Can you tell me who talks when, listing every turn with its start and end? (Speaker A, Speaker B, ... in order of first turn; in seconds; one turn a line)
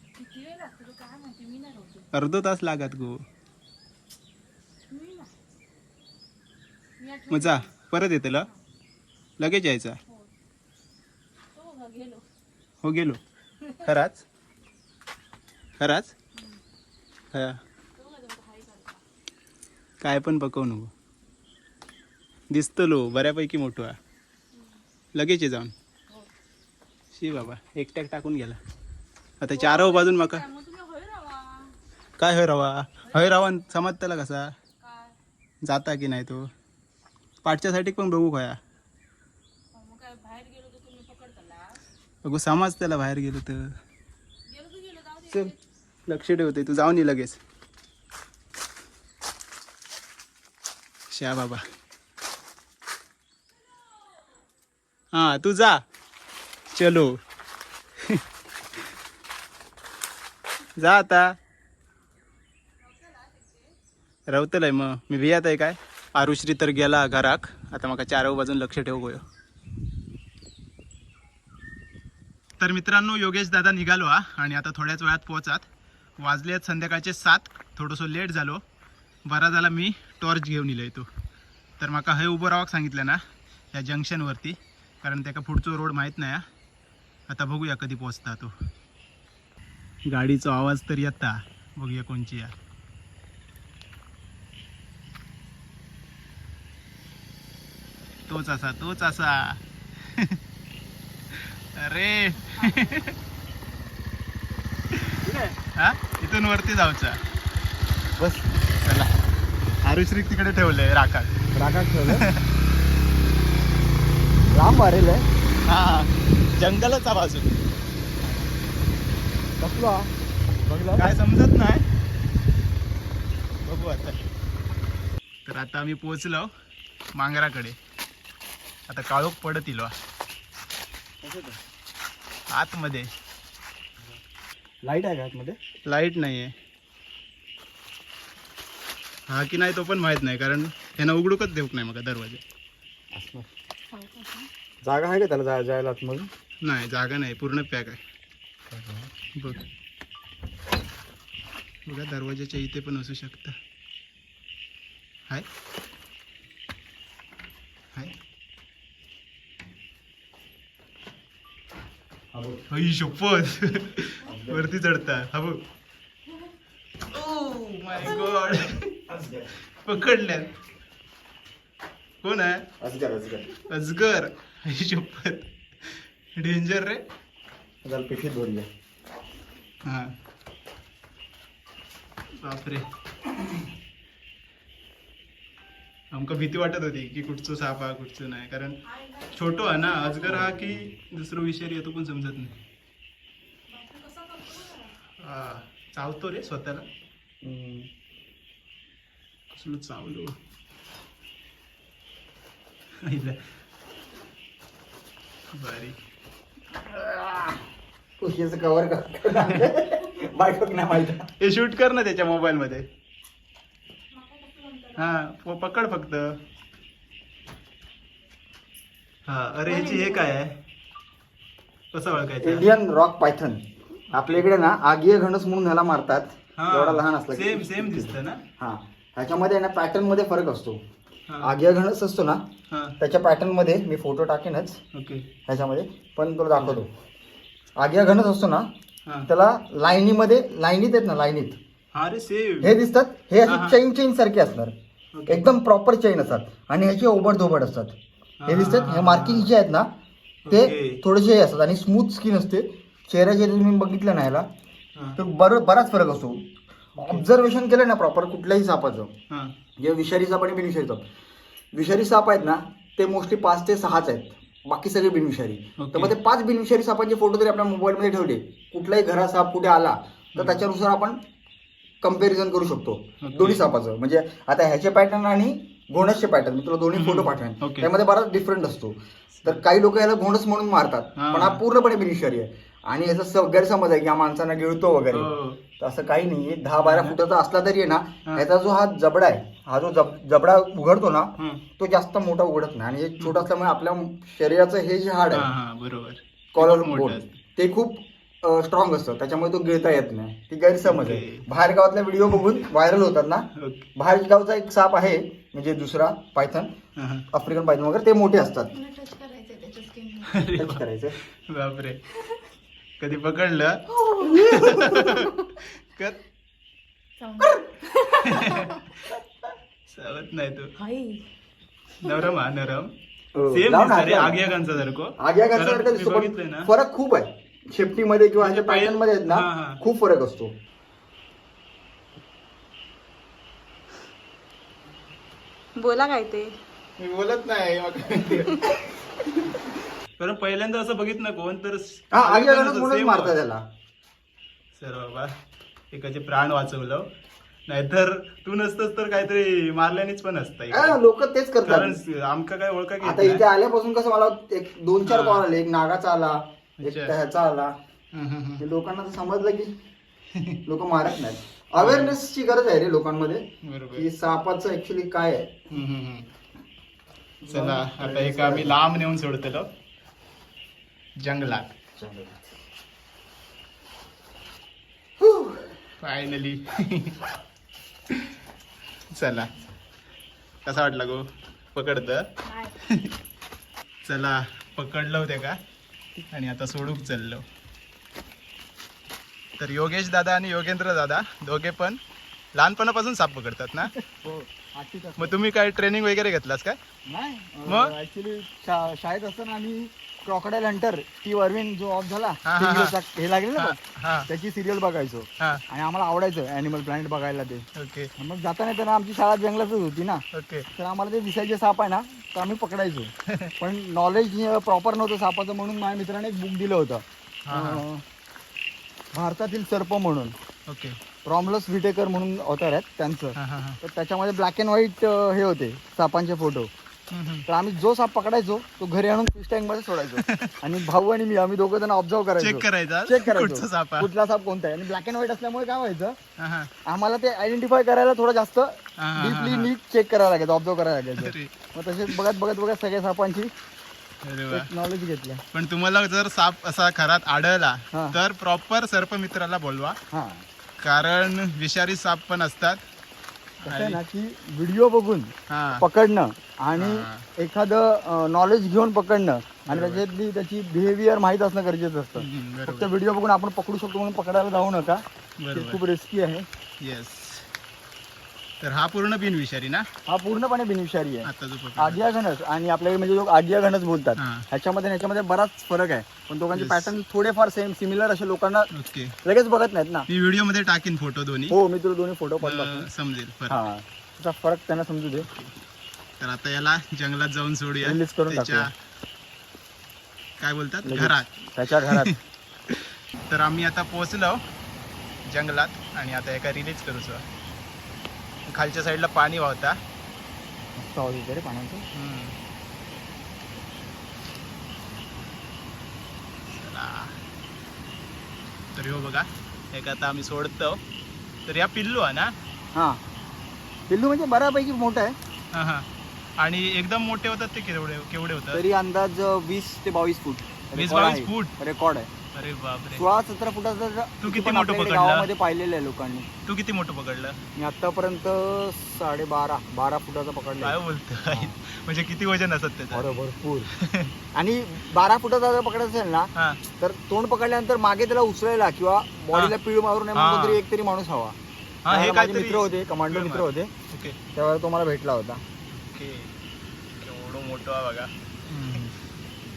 Speaker A: 0.2-2.1
Speaker B: 2.1-3.2
Speaker A: 4.9-5.3
Speaker A: 7.0-7.7
Speaker B: 7.3-8.5
Speaker B: 9.4-10.0
Speaker A: 11.5-12.3
Speaker B: 12.8-13.2
Speaker A: 13.6-13.9
Speaker B: 13.8-14.2
Speaker B: 15.8-16.1
Speaker A: 16.3-16.6
Speaker B: 17.3-17.6
Speaker A: 17.9-19.0
Speaker B: 20.0-20.9
Speaker B: 22.5-24.0
Speaker A: 24.5-24.8
Speaker B: 25.1-25.7
Speaker B: 27.1-28.6
Speaker B: 29.4-30.4
Speaker A: 29.5-31.8
Speaker B: 32.2-34.5
Speaker A: 33.0-33.4
Speaker A: 34.8-35.2
Speaker B: 35.6-36.5
Speaker B: 37.4-38.6
Speaker A: 39.7-41.8
Speaker B: 42.2-43.8
Speaker A: 44.5-45.6
Speaker B: 46.1-47.4
Speaker B: 51.1-51.6
Speaker B: 55.1-55.8
Speaker B: 56.7-57.2
Speaker B: 58.0-58.2
Speaker B: 60.8-61.4
Speaker A: 62.8-63.7
Speaker B: 64.3-69.2
Speaker B: 72.6-75.7
Speaker B: 76.2-78.6
Speaker B: 79.3-81.1
Speaker B: 81.8-83.2
Speaker B: 83.7-86.5
Speaker B: 87.3-88.5
Speaker B: 90.1-92.5
Speaker B: 98.3-100.4
Speaker B: 101.3-103.2
Speaker A: 102.5-103.0
Speaker B: 104.9-107.2
Speaker C: 105.2-105.5
Speaker C: 108.2-108.4
Speaker B: 108.8-109.2
Speaker B: 109.8-111.3
Speaker C: 111.5-112.2
Speaker B: 112.1-112.5
Speaker C: 114.5-115.3
Speaker B: 115.7-117.6
Speaker C: 118.2-118.5
Speaker C: 119.6-121.1
Speaker B: 121.0-121.8
Speaker B: 123.6-124.2
Speaker B: 125.5-126.5
Speaker B: 127.2-127.8
Speaker B: 128.9-129.9
Speaker C: 131.2-131.6
Speaker B: 132.5-133.1
Speaker C: 134.8-135.6
Speaker B: 135.8-136.6
Speaker B: 139.3-142.4
Speaker C: 143.1-143.5
Speaker A: 143.9-144.5
Speaker C: 144.8-146.3
Speaker B: 146.6-148.0
Speaker C: 148.7-149.1
Speaker B: 149.4-149.7
Speaker B: 151.9-153.6
Speaker C: 162.3-162.6
Speaker B: 162.7-165.6
Speaker C: 164.2-164.7
Speaker B: 167.1-169.0
Speaker C: 169.1-169.5
Speaker B: 169.6-170.5
Speaker B: 172.2-172.7
Speaker C: 172.8-173.6
Speaker B: 173.7-177.0
Speaker C: 177.8-178.7
Speaker B: 179.8-180.2
Speaker B: 182.4-182.9
Speaker B: 186.1-188.8
Speaker A: 188.9-190.5
Speaker B: 189.3-192.6
Speaker A: 193.7-195.0
Speaker B: 195.2-196.9
Speaker C: 197.4-197.9
Speaker B: 199.5-200.3
Speaker B: 203.0-203.5
Speaker B: 205.5-206.0
Speaker C: 206.9-207.6
Speaker C: 208.2-211.3
Speaker B: 209.5-209.7
Speaker B: 211.4-212.9
Speaker A: 214.1-215.1
Speaker B: 215.0-216.4
Speaker B: 219.3-220.6
Speaker A: 219.7-220.3
Speaker B: 221.9-222.7
Speaker C: 222.4-230.8
Speaker B: 224.1-224.5
Speaker B: 226.6-228.4
Speaker B: 231.3-231.5
Speaker C: 231.4-232.4
Speaker B: 232.7-233.0
Speaker C: 233.0-234.8
Speaker B: 234.9-235.3
Speaker C: 235.5-236.9
Speaker B: 236.6-236.8
Speaker C: 237.8-238.7
Speaker C: 239.3-241.6
Speaker B: 241.9-242.8
Speaker C: 242.6-244.7
Speaker B: 243.4-243.8
Speaker B: 245.1-245.5
Speaker C: 245.3-247.9
Speaker B: 248.4-249.5
Speaker C: 248.5-249.9
Speaker B: 250.4-251.0
Speaker C: 250.5-254.5
Speaker C: 255.2-256.5
Speaker B: 257.0-257.2
Speaker C: 257.0-259.1
Speaker C: 259.8-261.0
Speaker C: 261.7-271.2
Speaker B: 265.8-266.2
Speaker B: 270.4-270.6
Speaker C: 272.0-295.5
Speaker B: 273.2-273.7
Speaker B: 276.9-277.9
Speaker B: 281.2-281.6
Speaker B: 285.1-285.6
Speaker B: 286.8-287.2
Speaker B: 293.2-293.4
Speaker B: 295.3-297.3
Speaker C: 296.5-306.7
Speaker B: 300.8-301.4
Speaker B: 302.3-302.5
Speaker B: 303.6-303.9
Speaker B: 307.0-307.3
Speaker C: 307.3-308.7
Speaker A: 308.7-310.5
Speaker B: 310.2-312.0
Speaker C: 310.6-311.2
Speaker B: 313.0-316.2
Speaker A: 314.0-315.3
Speaker C: 314.5-314.8
Speaker A: 317.2-319.0
Speaker B: 318.2-318.8
Speaker B: 319.9-320.7
Speaker A: 320.8-321.3
Speaker B: 322.0-322.9
Speaker A: 322.0-322.3
Speaker C: 323.4-324.5
Speaker B: 323.5-326.7
Speaker C: 325.2-330.5
Speaker B: 328.4-329.8
Speaker A: 335.8-336.6
Speaker B: 337.0-343.4
Speaker C: 342.1-343.6
Speaker B: 344.8-345.3
Speaker B: 345.9-347.1
Speaker B: 347.7-351.0
Speaker C: 350.7-352.0
Speaker B: 351.6-353.4
Speaker C: 353.0-357.7
Speaker B: 355.0-355.5
Speaker B: 356.8-357.2
Speaker B: 358.1-358.6
Speaker C: 358.6-359.7
Speaker B: 360.3-360.6
Speaker C: 360.7-365.6
Speaker B: 361.8-362.2
Speaker B: 363.6-364.1
Speaker B: 365.7-366.3
Speaker C: 367.4-368.8
Speaker B: 367.5-369.7
Speaker B: 371.2-371.8
Speaker C: 372.0-372.4
Speaker C: 375.2-375.6
Speaker B: 376.0-377.2
Speaker B: 378.1-378.4
Speaker B: 379.1-379.5
Speaker B: 380.7-382.3
Speaker A: 382.5-382.7
Speaker B: 382.8-383.1
Speaker B: 384.1-385.6
Speaker B: 386.3-387.4
Speaker B: 389.6-392.0
Speaker B: 392.5-393.9
Speaker C: 394.1-395.4
Speaker B: 395.2-396.8
Speaker C: 397.1-407.6
Speaker B: 397.7-397.9
Speaker B: 402.5-403.0
Speaker B: 403.6-404.3
Speaker B: 407.8-408.1
Speaker C: 408.2-410.2
Speaker B: 410.3-410.7
Speaker C: 410.8-418.0
Speaker B: 413.3-413.5
Speaker B: 417.5-417.8
Speaker C: 419.1-420.4
Speaker B: 420.7-421.0
Speaker C: 421.2-426.7
Speaker B: 423.4-423.8
Speaker B: 427.1-427.4
Speaker C: 427.5-436.2
Speaker B: 430.1-430.8
Speaker B: 432.4-434.1
Speaker B: 436.4-436.7
Speaker C: 436.9-443.5
Speaker B: 439.0-439.7
Speaker B: 441.2-441.5
Speaker B: 444.2-444.7
Speaker C: 444.5-445.4
Speaker B: 445.5-450.0
Speaker C: 447.9-448.2
Speaker C: 450.1-450.4
Speaker B: 450.8-452.8
Speaker B: 453.6-454.0
Speaker C: 453.6-466.5
Speaker B: 455.5-455.9
Speaker B: 456.8-457.3
Speaker B: 459.7-460.1
Speaker B: 462.2-462.9
Speaker B: 465.4-465.8
Speaker B: 466.8-467.5
Speaker B: 468.6-469.9
Speaker C: 470.1-478.7
Speaker B: 471.2-472.1
Speaker B: 474.2-474.5
Speaker B: 476.5-476.9
Speaker B: 478.7-479.2
Speaker C: 479.2-480.1
Speaker B: 480.1-481.6
Speaker C: 481.5-482.9
Speaker B: 482.4-483.6
Speaker C: 483.5-485.3
Speaker B: 485.2-485.5
Speaker B: 486.2-488.7
Speaker C: 487.8-488.7
Speaker B: 490.4-492.2
Speaker C: 490.8-492.1
Speaker B: 492.7-494.4
Speaker B: 495.3-497.3
Speaker B: 498.5-499.8
Speaker C: 500.8-501.9
Speaker B: 501.9-502.4
Speaker B: 506.5-507.2
Speaker B: 508.8-510.8
Speaker B: 511.5-512.3
Speaker C: 512.8-513.0
Speaker C: 513.9-515.1
Speaker B: 515.5-515.9
Speaker B: 516.4-518.6
Speaker C: 518.5-522.1
Speaker B: 520.8-521.6
Speaker B: 522.3-523.0
Speaker C: 522.9-526.3
Speaker B: 524.2-525.3
Speaker B: 526.5-527.4
Speaker C: 527.6-530.8
Speaker B: 530.6-533.1
Speaker C: 531.3-531.6
Speaker C: 532.9-533.7
Speaker B: 533.7-534.1
Speaker C: 534.3-541.4
Speaker B: 536.4-536.6
Speaker B: 540.1-540.6
Speaker B: 541.9-544.2
Speaker C: 541.9-543.7
Speaker C: 544.4-545.4
Speaker B: 545.7-546.3
Speaker B: 547.0-548.9
Speaker C: 548.5-548.9